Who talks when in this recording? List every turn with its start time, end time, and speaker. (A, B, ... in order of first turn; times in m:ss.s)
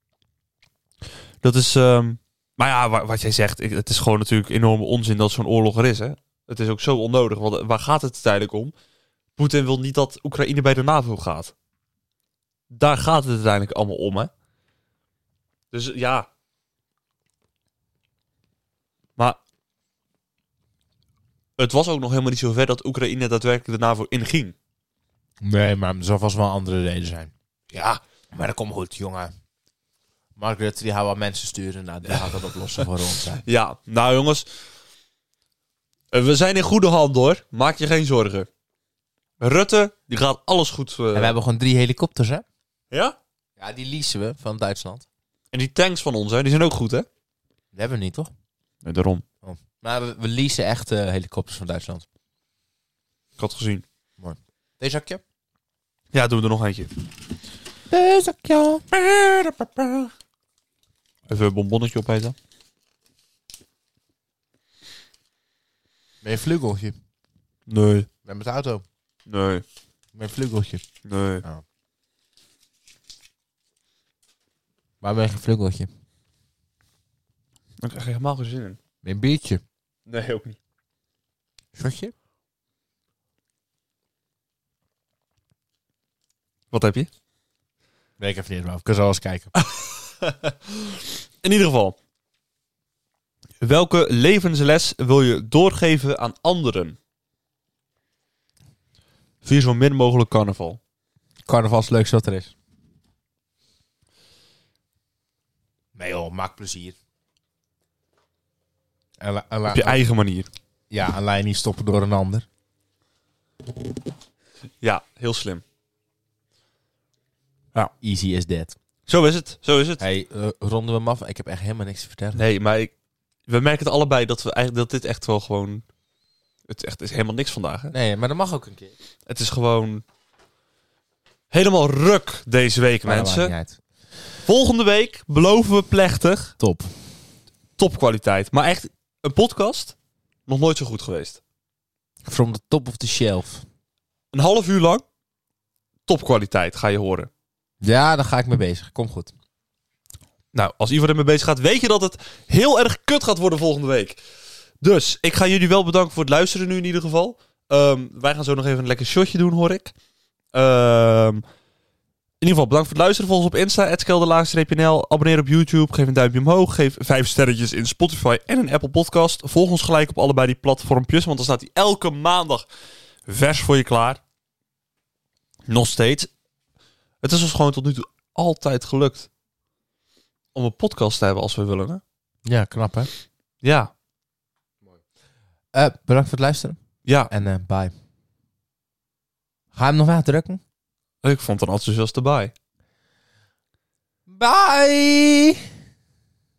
0:01.4-0:08.7 A
0:09.4-0:11.5 A
0:12.7-0:14.3 A
0:15.7-0:16.3 A
0:21.6-0:24.5 A
0:25.4-0:27.3 B
0:27.8-0:29.3 B
0:30.4-0:33.4 B
0:32.1-0:34.5 A
0:36.1-0:38.5 A
0:39.4-0:41.3 A
0:41.1-0:42.4 B
0:42.9-0:43.2 A
0:43.6-0:45.0 B
0:45.5-0:47.0 A
0:47.7-0:48.3 B
0:48.8-0:49.2 A
0:49.4-0:52.0 B
0:53.4-0:53.8 A
0:54.2-0:55.2 B
0:56.1-0:56.9 A
0:57.9-0:58.9 B
0:58.9-1:00.1 A
1:01.3-1:02.3 A
1:06.2-1:06.9 B
1:07.7-1:08.1 A
1:08.2-1:08.8 B
1:09.2-1:09.6 A
1:10.1-1:10.8 B
1:11.0-1:11.4 A
1:15.0-1:15.9 B
1:17.8-1:18.8 A
1:19.0-1:19.6 B
1:20.0-1:20.6 A
1:21.8-1:22.1 B
1:26.7-1:27.1 A
1:28.2-1:29.5 B
1:29.6-1:32.0 A
1:33.6-1:37.0 A
1:39.4-1:40.8 A
1:41.4-1:42.5 B
1:46.0-1:47.0 B
1:49.2-1:50.0 B
1:49.7-1:50.5 A
1:50.9-1:52.4 B
1:54.8-1:55.6 A
1:58.0-1:58.8 B
1:59.1-2:00.0 A
2:00.0-2:02.4 B
2:02.3-2:02.9 A
2:03.5-2:05.8 A
2:06.7-2:07.9 A
2:07.9-2:08.9 B
2:09.3-2:10.0 A
2:11.5-2:13.5 A
2:13.0-2:13.8 B
2:14.4-2:16.5 A
2:16.6-2:16.9 B
2:17.8-2:20.0 A
2:20.5-2:21.4 A
2:22.2-2:23.6 B
2:24.3-2:25.0 A
2:26.1-2:27.3 A
2:27.8-2:29.3 B
2:30.5-2:34.2 A
2:34.8-2:39.9 A
2:40.5-2:41.4 A
2:42.4-2:52.6 A
2:53.3-2:54.2 A
2:55.6-2:56.3 A
2:57.2-2:59.3 A
3:00.5-3:02.0 A
3:02.4-3:03.1 B
3:03.6-3:03.9 A
3:05.7-3:07.9 B
3:07.0-3:07.3 A
3:09.7-3:10.6 B
3:11.2-3:12.5 A
3:14.3-3:15.6 B